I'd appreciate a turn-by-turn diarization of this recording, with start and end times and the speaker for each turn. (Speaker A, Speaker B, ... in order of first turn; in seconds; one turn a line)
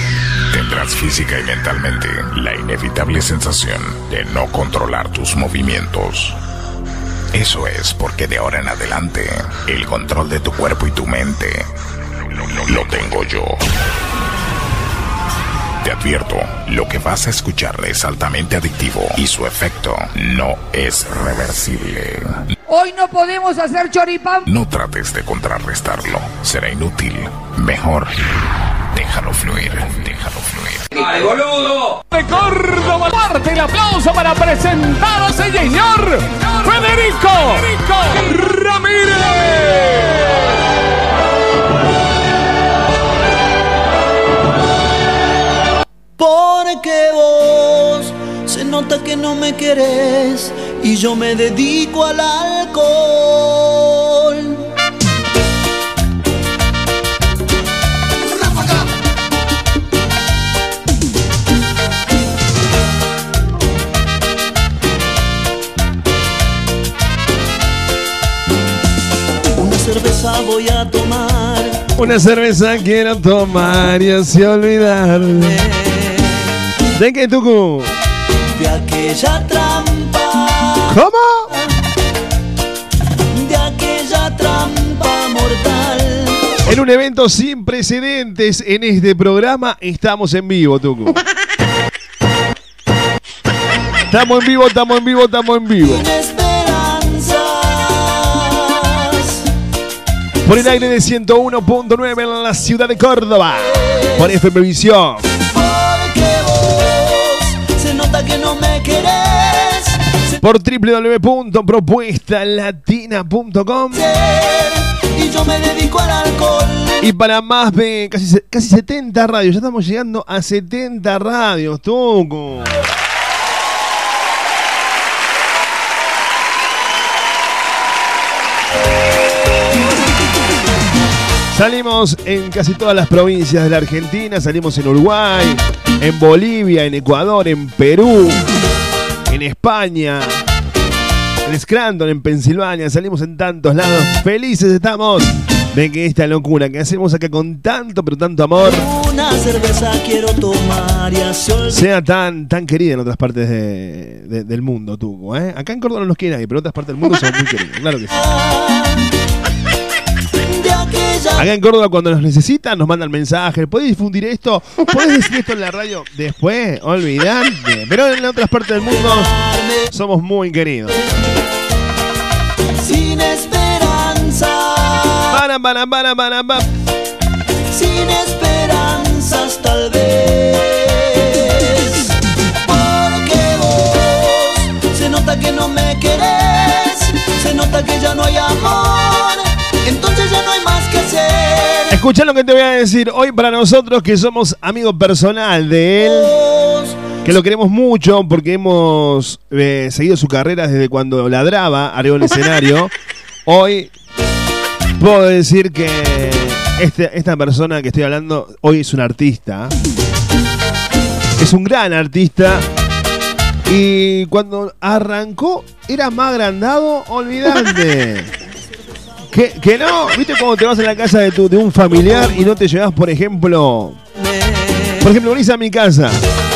Speaker A: 0.5-6.4
Speaker A: 7.3-11.7
Speaker A: 12.2-13.6
Speaker A: 15.8-22.5
Speaker B: 22.7-24.5
Speaker A: 24.5-28.1
Speaker A: 28.9-30.9
Speaker C: 31.0-39.2
Speaker B: 33.8-34.1
Speaker B: 35.2-35.8
Speaker D: 46.2-54.6
Speaker D: 69.6-71.8
Speaker E: 72.0-75.6
Speaker E: 76.9-77.9
Speaker D: 78.5-81.0
Speaker E: 80.9-81.5
Speaker D: 83.3-86.5
Speaker E: 86.7-91.2
Speaker E: 94.1-96.0
Speaker D: 95.8-99.4
Speaker E: 100.4-105.2
Speaker D: 103.9-104.2
Speaker D: 105.4-110.2
Speaker E: 110.4-114.0
Speaker D: 113.9-117.0
Speaker E: 117.0-122.8
Speaker E: 131.5-138.4
Speaker E: 139.3-140.3
Speaker E: 141.4-148.9
Speaker D: 148.6-151.8
Speaker E: 151.7-158.1
Speaker D: 158.1-159.1
Speaker D: 160.4-161.5
Speaker E: 161.3-169.3
Speaker D: 168.9-169.9
Speaker E: 169.9-170.9
Speaker D: 172.8-175.3
Speaker E: 175.3-176.7
Speaker D: 177.7-191.9
Speaker E: 191.9-196.3
Speaker D: 196.0-197.0
Speaker E: 197.2-202.9
Speaker E: 203.4-203.9
Speaker E: 205.0-209.7
Speaker E: 211.4-212.7
Speaker E: 213.7-218.3
Speaker E: 219.3-224.0
Speaker E: 225.0-226.2